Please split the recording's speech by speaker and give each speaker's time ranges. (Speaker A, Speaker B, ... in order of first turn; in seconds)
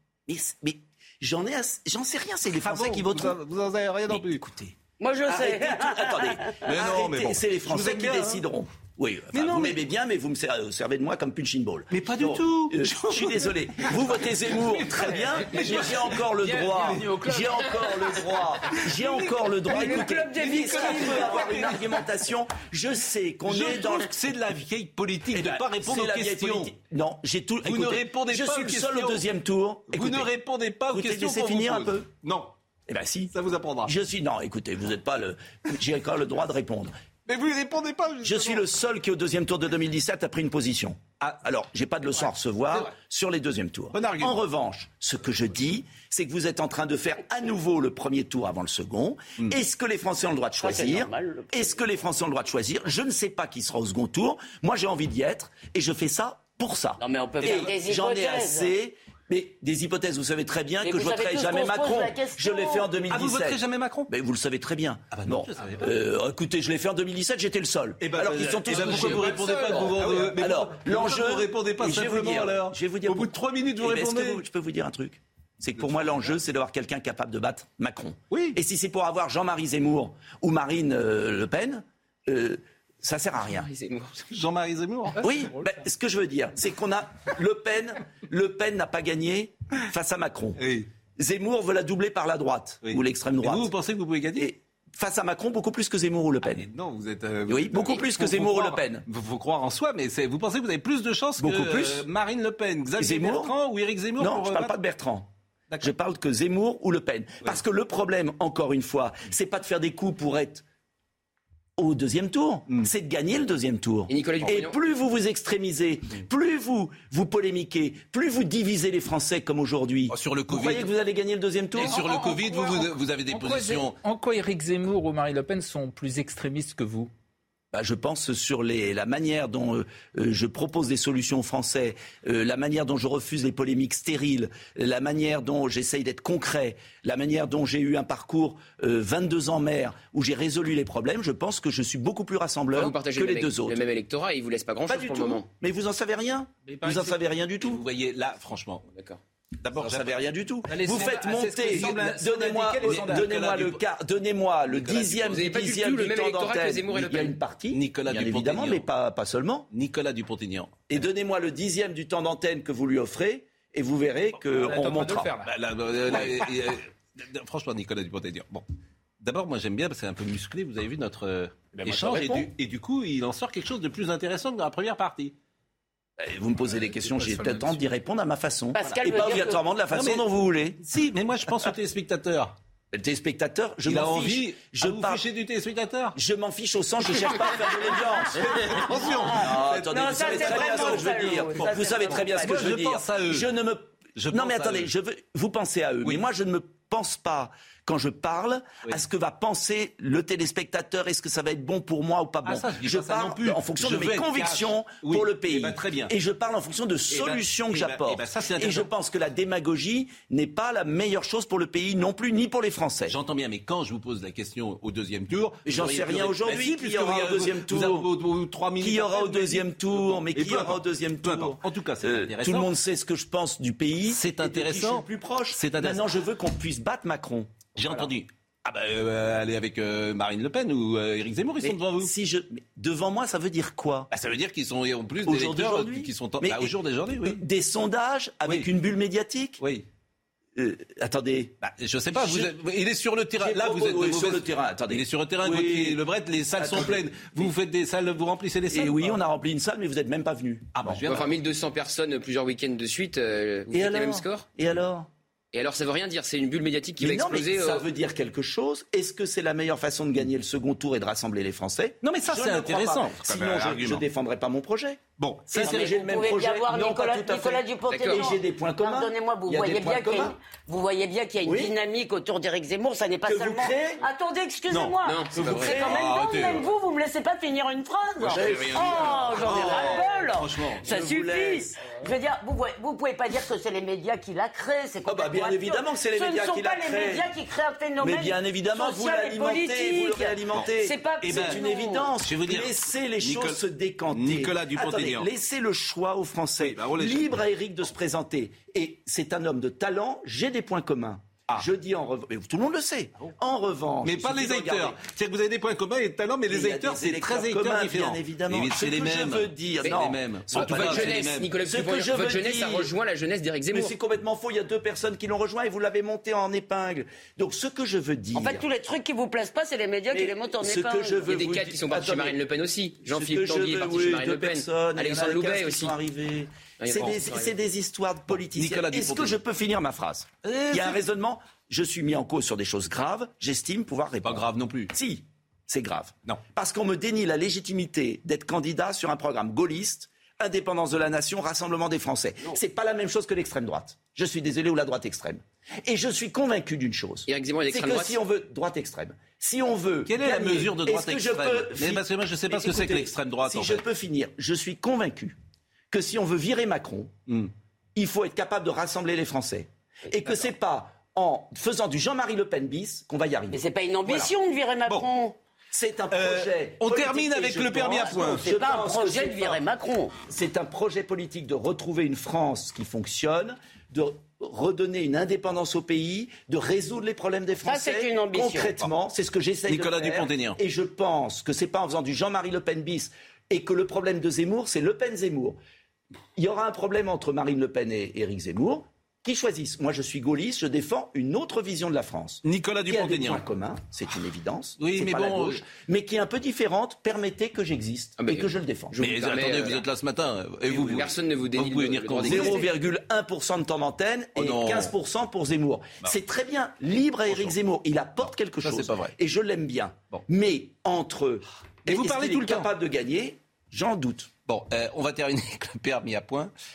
Speaker A: 0.3-3.4, 4.1-4.7, 5.2-24.1, 25.3-30.3, 30.9-32.1, 32.9-33.3, 33.8-36.9, 38.2-83.7, 85.2-90.6, 91.2-93.7, 94.4-96.7, 97.5-99.0, 101.4-102.0, 103.0-103.5, 104.2-105.3, 105.8-110.6, 111.8-122.0, 127.7-143.8, 144.9-147.8, 149.8-159.7, 160.9-165.3, 171.8-172.5, 176.2-180.8, 182.9-185.2, 186.2-213.2, 215.7-218.1, 218.8-228.1, 231.6-234.1, 235.2-239.6, 240.5-241.5, 242.1-242.5, 243.4-246.0, 246.5-247.5, 248.7-251.0, 253.7-255.1, 257.0-270.3, 271.4-271.7, 273.2-274.0, 275.4-276.0, 278.2-280.2, 280.8-281.8, 285.1-287.3, 288.0-305.0, 306.5-312.9, 313.7-318.6, 320.1-322.4, 323.0-355.4, 355.9-357.1, 357.9-364.3, 365.7-369.6, 370.3-385.6, 386.4-399.0, 402.2-414.3
Speaker B: 2.6-4.6, 6.6-8.4, 9.3-9.8, 11.9-17.6, 18.1-22.0, 23.5-26.7, 27.6-29.2, 29.9-32.5, 33.3-33.9, 37.3-38.6, 43.9-44.4, 57.4-57.7, 63.1-64.1, 65.1-66.0, 68.0-74.4, 75.7-76.4, 78.3-78.5, 84.3-85.7, 90.6-90.9, 92.8-94.5, 96.4-104.7, 120.1-120.9, 121.8-123.9, 147.6-148.8, 149.6-150.2, 151.5-153.8, 154.8-155.4, 157.7-158.9, 159.7-160.9, 164.8-168.6, 169.2-175.3, 177.2-177.7, 179.9-180.2, 180.8-182.5, 183.8-186.1, 188.3-193.5, 194.2-194.9, 202.4-206.1, 207.1-208.9, 213.1-222.7, 224.1-226.1, 227.8-232.1, 234.1-237.4, 239.6-239.8, 241.6-249.2, 250.8-251.3, 262.0-264.0, 265.2-265.9, 274.7-276.7, 278.3-278.8, 279.3-280.8, 291.2-291.6, 292.2-293.6, 294.1-295.3, 296.6-297.4, 304.0-311.6, 328.3-329.4, 330.4-331.0, 334.2-334.9, 350.1-353.8, 366.1-368.4, 379.7-380.6, 392.4-393.4, 394.8-395.6, 399.0-402.6, 404.4-404.9, 407.3-407.6, 408.6-409.1, 411.9-412.7, 414.5-416.5
Speaker C: 5.0-6.6, 19.7-21.7, 50.6-51.8, 57.0-58.7, 60.8-62.9, 178.8-179.6, 189.8-192.8, 265.5-292.1, 318.3-321.3, 363.5-365.3, 368.1-370.1, 377.6-378.7
Speaker D: 15.2-15.8, 16.4-17.9, 121.8-127.1, 146.7-147.0, 150.7-153.3, 164.5-165.5
Speaker E: 83.6-84.2, 114.1-114.7, 142.7-145.5, 148.9-149.2, 155.2-157.4, 251.0-254.4, 255.5-257.8, 267.9-268.3, 275.0-275.8, 310.5-313.9, 321.2-325.9, 326.8-327.5, 347.3-348.2, 398.2-399.8, 400.6-402.6